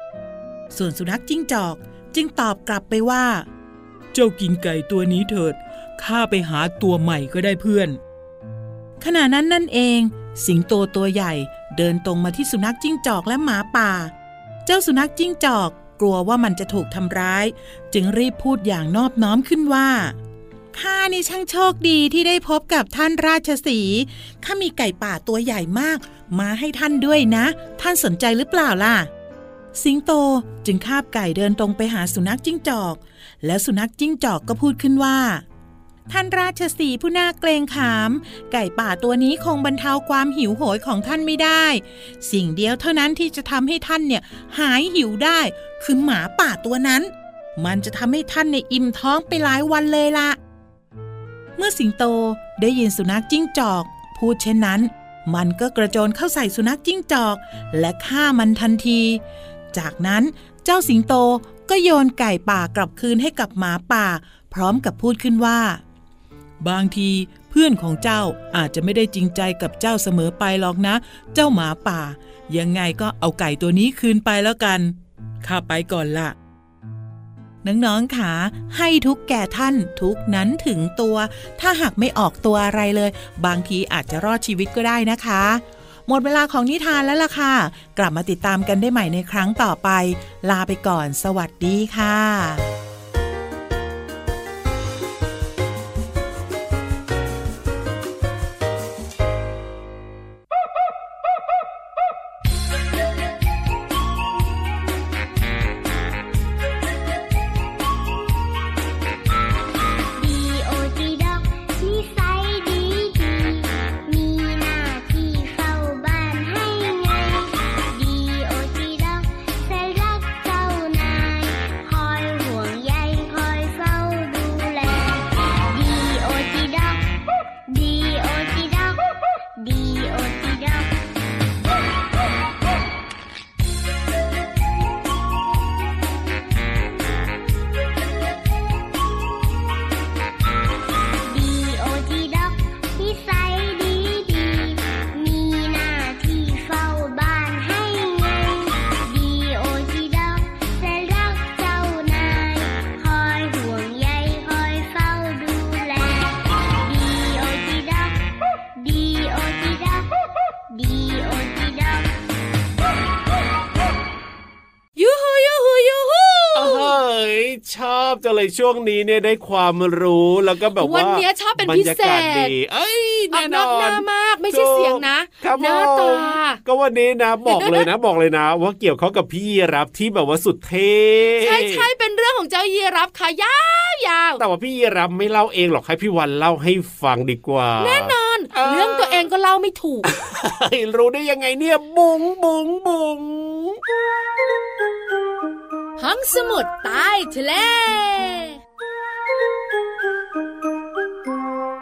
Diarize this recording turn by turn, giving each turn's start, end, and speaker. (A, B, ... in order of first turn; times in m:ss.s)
0:00.7-0:03.4 A
0:04.1-0:08.0 A
0:09.0-0:14.1 A
0:14.6-0:20.2 A
0:20.7-0:29.1 A
0:29.7-0:35.4 A
0:36.1-0:50.4 A
0:51.6-0:59.2 A
0:59.7-1:05.8 A
1:06.6-1:16.3 A
1:17.6-1:32.7 A
1:50.1-2:07.0 B
2:07.7-2:09.0 B
2:09.6-2:11.0 B
2:21.2-2:38.2 B
2:38.8-2:40.1 B
2:40.7-2:42.1 B
2:45.0-2:46.9 C
2:46.5-3:01.8 D
2:50.8-2:52.5 C
2:53.3-2:56.6 C
2:57.5-2:57.9 C
3:01.4-3:04.4 C
3:04.4-3:09.3 D
3:07.8-3:10.1 C
3:10.0-3:13.8 D
3:16.0-3:18.6 C